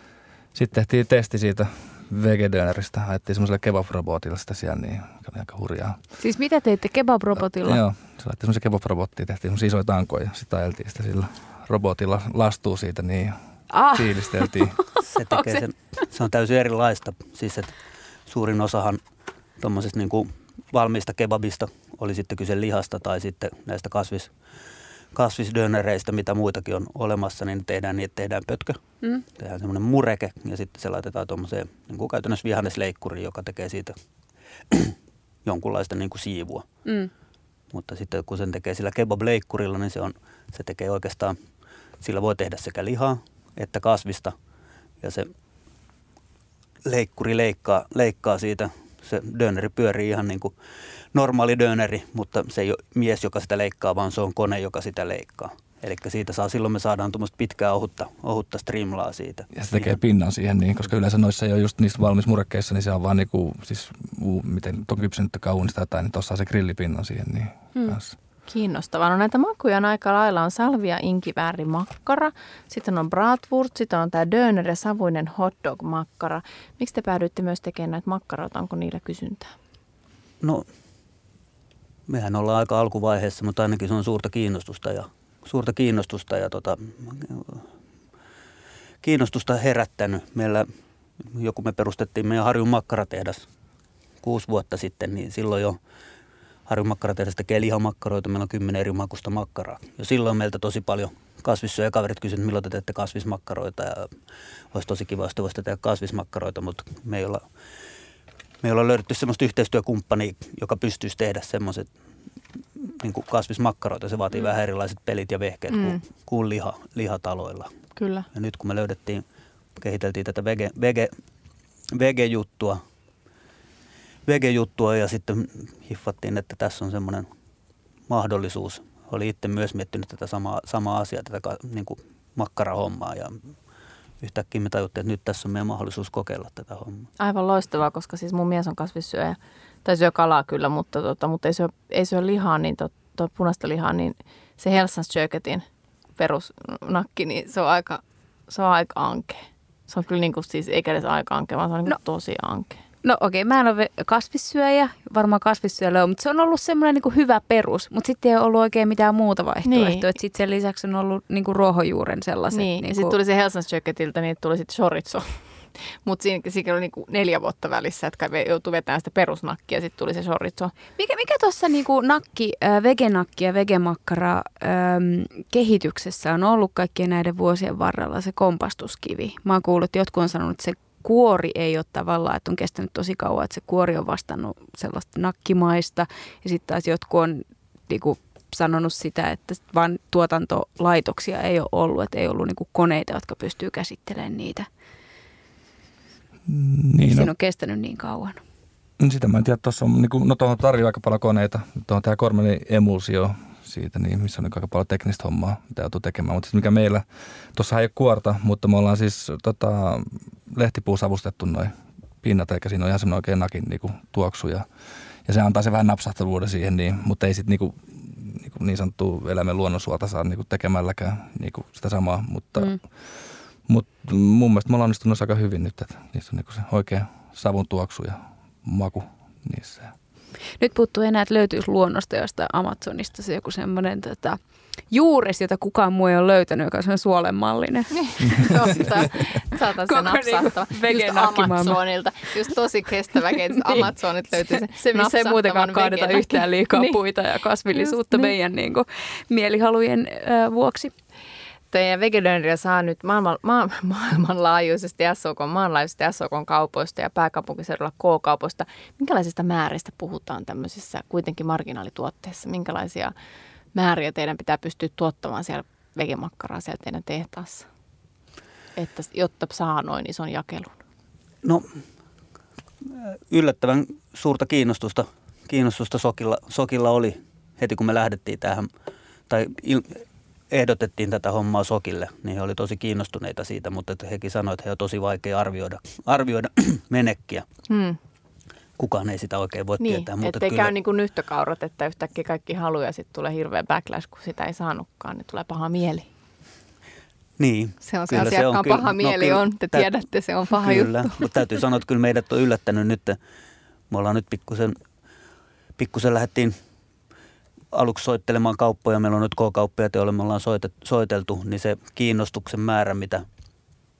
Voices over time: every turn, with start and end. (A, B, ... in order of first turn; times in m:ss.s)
0:00.5-0:06.0 A
0:06.2-0:07.8 B
0:07.6-0:13.4 A
0:13.7-0:15.6 B
0:13.9-0:14.8 A
0:15.1-0:17.8 C
0:18.3-0:19.0 C
0:19.6-0:24.3 C
0:25.1-0:28.8 C
0:29.4-0:34.0 C
0:34.7-0:36.7 C
0:36.8-0:37.1 B
0:37.7-0:41.4 C
0:42.0-0:44.4 C
0:45.0-0:45.3 C
0:46.9-0:50.6 C
0:51.1-1:00.0 C
0:59.5-1:08.2 A
1:08.5-1:19.5 D
1:22.1-1:27.7 C
1:29.0-1:30.7 C
1:31.2-1:33.5 C
1:34.2-1:35.8 C
1:36.7-1:44.2 C
1:44.7-1:47.4 C
1:48.6-1:51.9 C
1:52.8-1:57.7 C
1:55.7-1:56.0 D
1:58.0-1:58.3 D
1:58.3-1:59.2 C
1:59.8-2:01.1 C
2:01.9-2:02.8 C
2:04.3-2:07.3 C
2:08.1-2:13.5 C
2:14.2-2:17.1 C
2:17.2-2:25.6 D
2:26.2-2:32.8 D
2:33.0-2:43.2 B
2:39.7-2:40.1 D
2:42.5-2:50.7 D
2:51.0-3:14.7 B
3:16.5-3:17.3 A
3:17.0-3:18.4 B
3:19.0-3:34.7 A
3:35.3-3:50.0 A
3:50.6-3:54.4 B
3:54.9-3:58.6 B
3:58.0-4:07.0 D
3:59.9-4:01.8 B
4:03.7-4:10.9 B
4:07.7-4:08.3 D
4:11.7-4:23.1 D
4:23.7-4:27.7 D
4:28.8-4:30.8 D
4:31.4-4:31.8 C
4:32.8-4:38.7 C
4:39.3-4:47.5 C
4:47.7-4:48.0 D
4:48.8-4:50.7 C
4:49.8-4:56.1 D
4:57.4-4:59.9 C
4:57.8-5:01.3 D
5:00.5-5:03.2 C
5:03.9-5:04.8 C
5:05.8-5:06.6 C
5:07.7-5:13.3 C